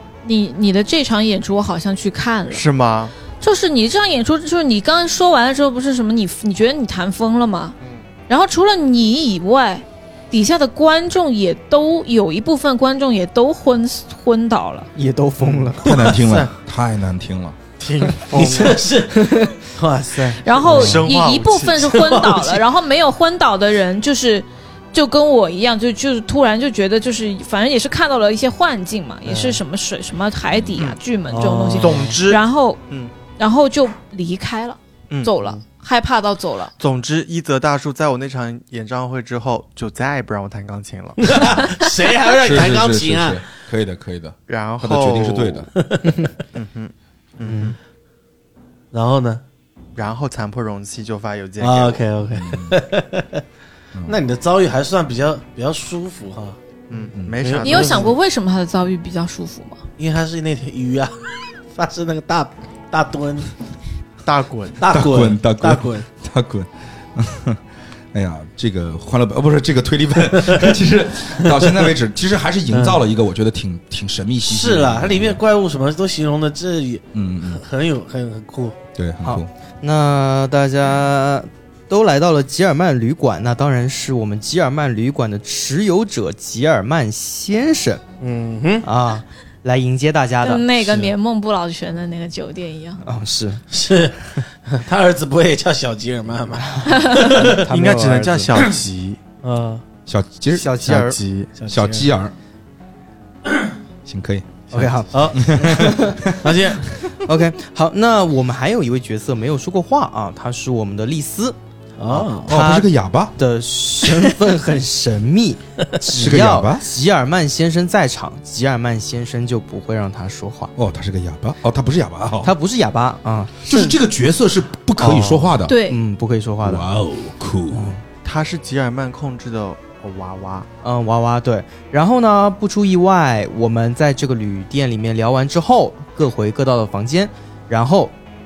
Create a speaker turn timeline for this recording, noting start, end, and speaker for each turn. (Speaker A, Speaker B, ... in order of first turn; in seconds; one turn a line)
Speaker A: 0.2-2.6
Speaker B: 2.5-3.1
Speaker A: 3.4-7.8
Speaker B: 7.8-8.0
Speaker A: 8.3-14.9
Speaker C: 14.9-15.8
Speaker D: 15.8-17.6
Speaker E: 15.8-16.5
Speaker B: 17.8-18.8
Speaker E: 18.3-21.0
Speaker C: 19.1-19.6
Speaker A: 20.4-32.8
Speaker B: 20.6-21.9
Speaker C: 20.6-21.0
Speaker E: 21.8-22.6
Speaker E: 29.3-29.6
Speaker D: 30.5-30.8
Speaker E: 31.3-32.2
Speaker B: 31.8-33.1
Speaker A: 33.4-36.7
Speaker B: 36.8-41.6
Speaker E: 41.2-43.4
Speaker D: 42.3-45.7
Speaker B: 44.5-45.7
Speaker E: 45.8-46.3
Speaker B: 46.5-47.8
Speaker C: 47.5-47.7
Speaker E: 48.9-49.4
Speaker B: 49.9-52.0
Speaker E: 51.6-53.4
Speaker D: 52.3-52.8
Speaker E: 54.0-56.6
Speaker B: 56.9-58.2
Speaker E: 57.4-58.1
Speaker A: 57.6-59.8
Speaker E: 60.0-63.6
Speaker B: 64.2-64.8
Speaker E: 64.8-66.0
Speaker D: 64.9-67.6
Speaker D: 68.1-75.4
Speaker E: 71.5-71.7
Speaker E: 72.7-73.0
Speaker E: 74.4-78.8
Speaker D: 77.1-77.6
Speaker D: 79.0-79.5
Speaker C: 79.2-88.0
Speaker E: 88.2-88.9
Speaker C: 88.8-90.9
Speaker A: 90.4-93.0
Speaker C: 93.0-93.6
Speaker E: 93.7-97.6
Speaker A: 96.9-97.4
Speaker C: 97.2-98.5
Speaker B: 97.5-99.2
Speaker E: 99.4-99.8
Speaker D: 100.1-100.9
Speaker C: 100.6-101.2
Speaker B: 100.6-101.5
Speaker E: 101.5-102.1
Speaker D: 101.7-102.3
Speaker D: 104.0-106.6
Speaker C: 104.7-106.2
Speaker E: 105.1-106.9
Speaker C: 107.2-111.5
Speaker E: 112.0-112.6
Speaker C: 112.1-120.7
Speaker D: 112.5-113.3
Speaker D: 116.1-116.9
Speaker D: 120.8-122.5
Speaker C: 122.4-123.6
Speaker D: 123.7-125.7
Speaker B: 125.0-125.5
Speaker A: 125.7-126.0
Speaker C: 125.9-126.9
Speaker D: 126.6-127.9
Speaker C: 127.7-128.0
Speaker B: 128.2-130.7
Speaker C: 130.8-138.1